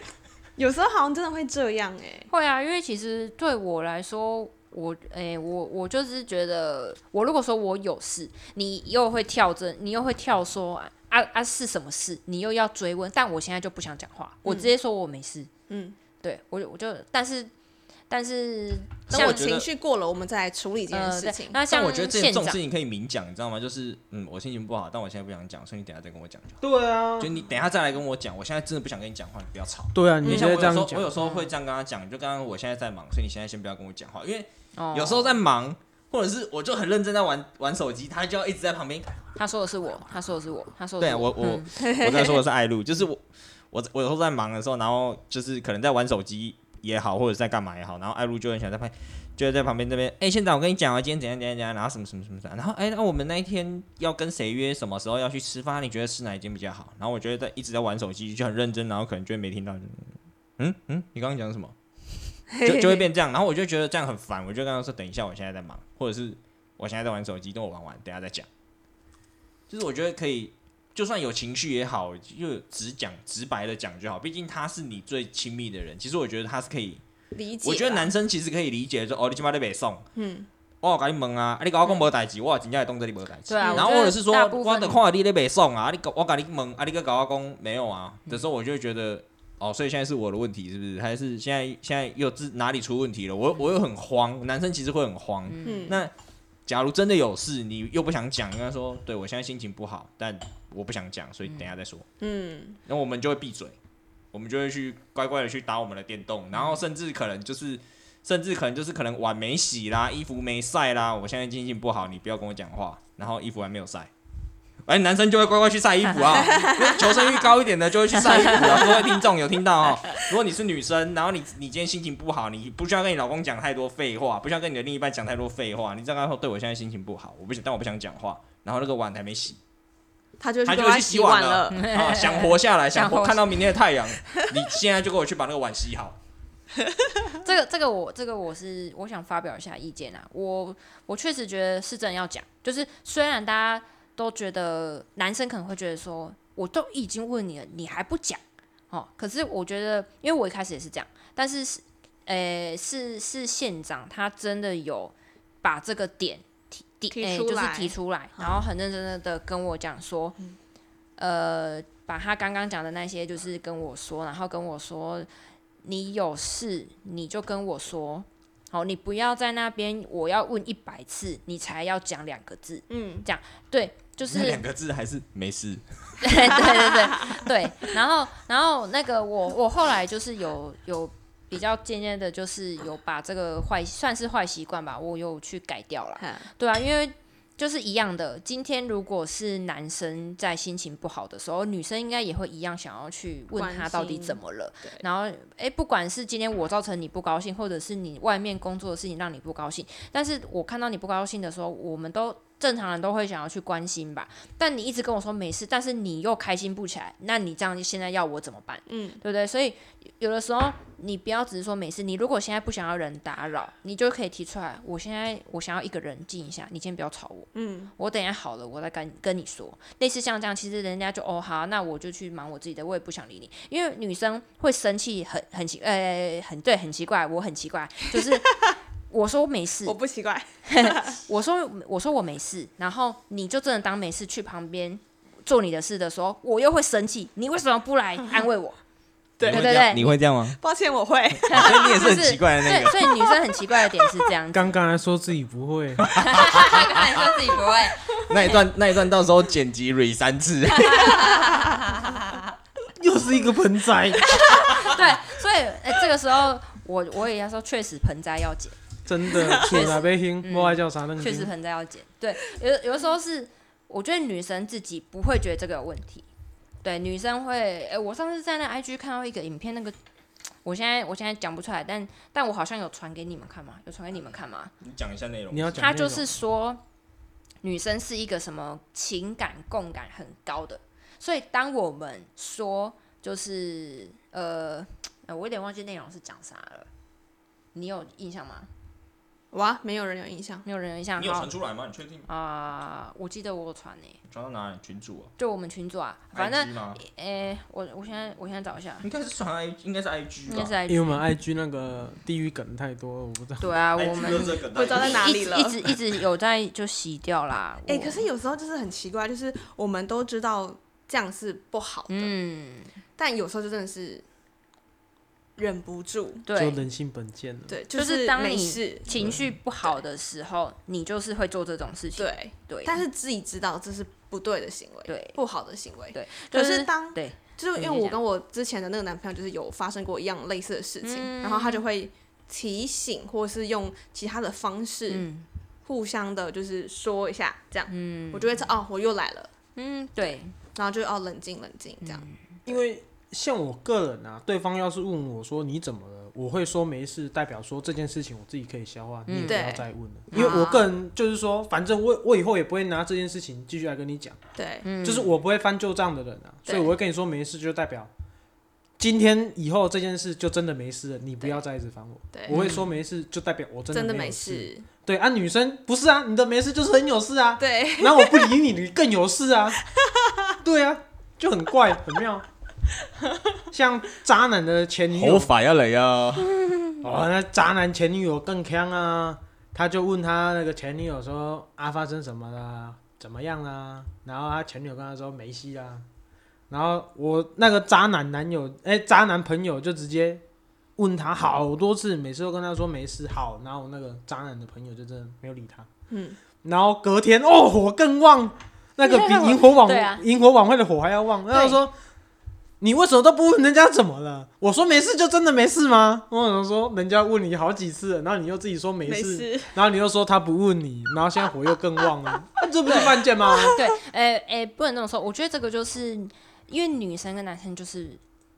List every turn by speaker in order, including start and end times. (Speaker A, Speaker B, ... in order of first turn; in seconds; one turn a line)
Speaker A: 0.6-2.3
Speaker B: 2.3-15.5
Speaker A: 14.4-14.7
Speaker A: 15.7-15.9
Speaker B: 16.2-17.5
Speaker B: 18.1-19.5
Speaker C: 19.1-19.7
Speaker A: 19.1-21.6
Speaker B: 20.9-22.6
Speaker C: 21.7-26.6
Speaker D: 26.6-27.3
Speaker C: 27.2-39.1
Speaker D: 29.9-31.1
Speaker A: 30.2-30.5
Speaker B: 31.1-31.5
Speaker B: 34.8-35.4
Speaker B: 39.4-41.7
Speaker C: 41.0-61.7
Speaker A: 41.8-42.4
Speaker C: 62.5-68.5
Speaker A: 62.6-63.0
Speaker C: 69.7-77.0
Speaker A: 77.3-78.1
Speaker C: 77.6-80.0
Speaker A: 80.2-80.5
Speaker C: 80.8-96.1
Speaker B: 83.5-85.0
Speaker A: 83.6-83.9
Speaker B: 95.5-95.9
Speaker A: 95.6-96.0
Speaker C: 96.7-102.0
Speaker A: 102.2-102.8
Speaker C: 102.8-103.8
Speaker C: 104.3-114.1
Speaker C: 114.8-129.6
Speaker A: 116.4-117.0
Speaker B: 118.4-118.9
Speaker A: 130.4-131.8
Speaker C: 130.7-136.2
Speaker B: 131.7-133.6
Speaker B: 137.4-160.3
Speaker A: 157.1-158.6
Speaker B: 161.2-165.3
Speaker B: 165.8-174.6
Speaker A: 172.9-173.2
Speaker C: 174.3-176.6
Speaker B: 176.2-228.5
Speaker A: 176.8-177.4
Speaker A: 186.2-186.5
Speaker A: 193.5-195.0
Speaker A: 208.9-209.2
Speaker A: 217.5-217.9
Speaker B: 229.1-230.0
Speaker A: 229.8-231.2
Speaker B: 230.7-238.8
Speaker A: 239.4-242.0
Speaker C: 239.4-240.6
Speaker B: 239.4-240.1
Speaker C: 241.4-243.1
Speaker B: 241.5-244.7
Speaker D: 244.5-246.1
Speaker C: 246.0-247.0
Speaker B: 246.2-248.2
Speaker C: 248.1-251.4
Speaker B: 250.8-252.4
Speaker D: 252.9-254.5
Speaker B: 254.3-258.8
Speaker D: 259.1-261.5
Speaker B: 259.3-266.2
Speaker B: 266.8-269.9
Speaker B: 270.6-274.7
Speaker C: 274.8-275.8
Speaker D: 275.5-276.3
Speaker B: 275.8-276.8
Speaker B: 277.6-286.9
Speaker B: 287.7-288.7
Speaker A: 289.5-290.6
Speaker B: 290.6-291.5
Speaker C: 291.2-292.3
Speaker B: 292.3-294.2
Speaker C: 294.3-295.3
Speaker B: 295.4-299.1
Speaker C: 296.3-297.0
Speaker C: 299.0-300.8
Speaker B: 300.5-301.2
Speaker D: 300.9-303.7
Speaker B: 303.6-308.2
Speaker C: 303.9-305.4
Speaker A: 304.7-305.8
Speaker A: 307.9-312.3
Speaker B: 312.1-312.9
Speaker A: 313.2-314.2
Speaker A: 315.6-316.4
Speaker B: 316.4-316.8
Speaker D: 316.5-317.8
Speaker A: 317.7-319.9
Speaker B: 317.9-323.0
Speaker A: 322.2-335.3
Speaker B: 325.1-325.4
Speaker B: 326.1-328.2
Speaker B: 331.0-331.8
Speaker B: 335.1-335.4
Speaker A: 335.8-339.5
Speaker B: 337.9-338.6
Speaker B: 339.8-340.5
Speaker A: 340.7-342.2
Speaker B: 342.0-342.4
Speaker D: 342.6-354.4
Speaker B: 349.3-349.6
Speaker A: 349.4-350.9
Speaker B: 350.3-350.6
Speaker A: 354.6-354.9
Speaker B: 354.8-355.3
Speaker D: 355.0-358.1
Speaker A: 356.6-356.9
Speaker D: 359.0-369.8
Speaker A: 362.3-362.7
Speaker B: 362.5-362.9
Speaker A: 363.9-364.8
Speaker A: 367.6-368.5
Speaker D: 370.6-372.4
Speaker D: 373.7-375.5
Speaker C: 375.1-376.7
Speaker D: 377.0-386.0
Speaker D: 386.7-390.4
Speaker D: 391.0-395.9
Speaker A: 396.1-396.4
Speaker D: 396.6-401.9
Speaker B: 399.0-400.2
Speaker D: 402.8-413.8
Speaker A: 409.1-409.7
Speaker A: 412.9-413.8
Speaker B: 413.8-418.2